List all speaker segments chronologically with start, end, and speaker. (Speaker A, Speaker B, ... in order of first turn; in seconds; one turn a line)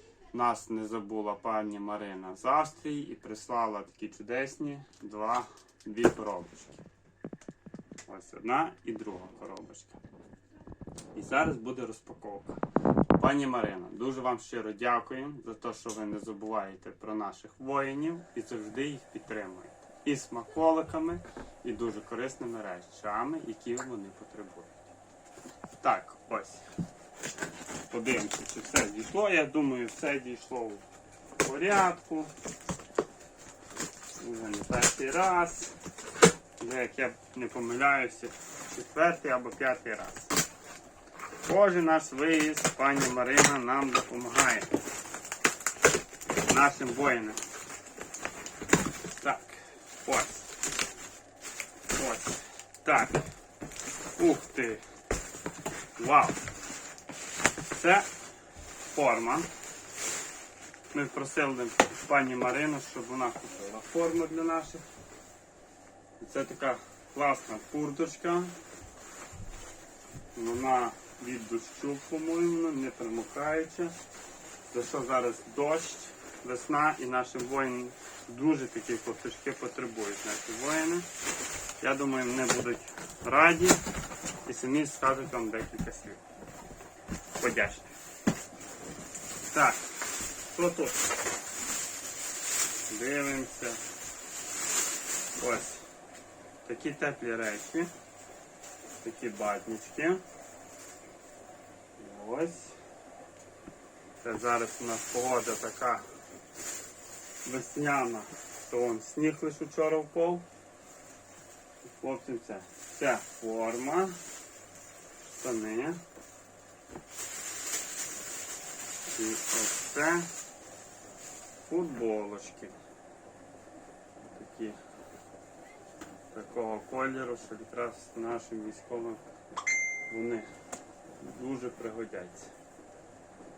Speaker A: 0.3-6.8
Speaker A: 8.1-10.0
Speaker A: 11.1-12.6
Speaker A: 13.2-24.8
Speaker A: 25.8-26.6
Speaker A: 27.9-30.8
Speaker A: 31.4-32.3
Speaker A: 34.2-35.7
Speaker A: 36.6-40.3
Speaker A: 41.4-44.8
Speaker A: 46.5-47.4
Speaker A: 49.2-50.5
Speaker A: 51.9-53.2
Speaker A: 54.2-54.8
Speaker A: 56.0-56.4
Speaker A: 57.7-58.1
Speaker A: 58.9-59.5
Speaker A: 60.9-64.8
Speaker A: 66.2-68.5
Speaker A: 70.3-73.9
Speaker A: 74.7-81.1
Speaker A: 81.8-83.8
Speaker A: 84.4-86.2
Speaker A: 87.4-87.9
Speaker A: 89.5-89.8
Speaker A: 90.5-91.0
Speaker A: 92.9-93.8
Speaker A: 95.4-95.8
Speaker A: 96.6-97.9
Speaker A: 99.0-100.2
Speaker A: 102.0-102.8
Speaker A: 104.2-106.0
Speaker A: 107.4-110.4
Speaker A: 111.8-114.1
Speaker A: 115.3-116.0
Speaker A: 119.0-120.3
Speaker A: 121.7-122.7
Speaker A: 124.3-124.8
Speaker A: 126.3-129.2
Speaker A: 130.1-130.5
Speaker A: 131.2-132.5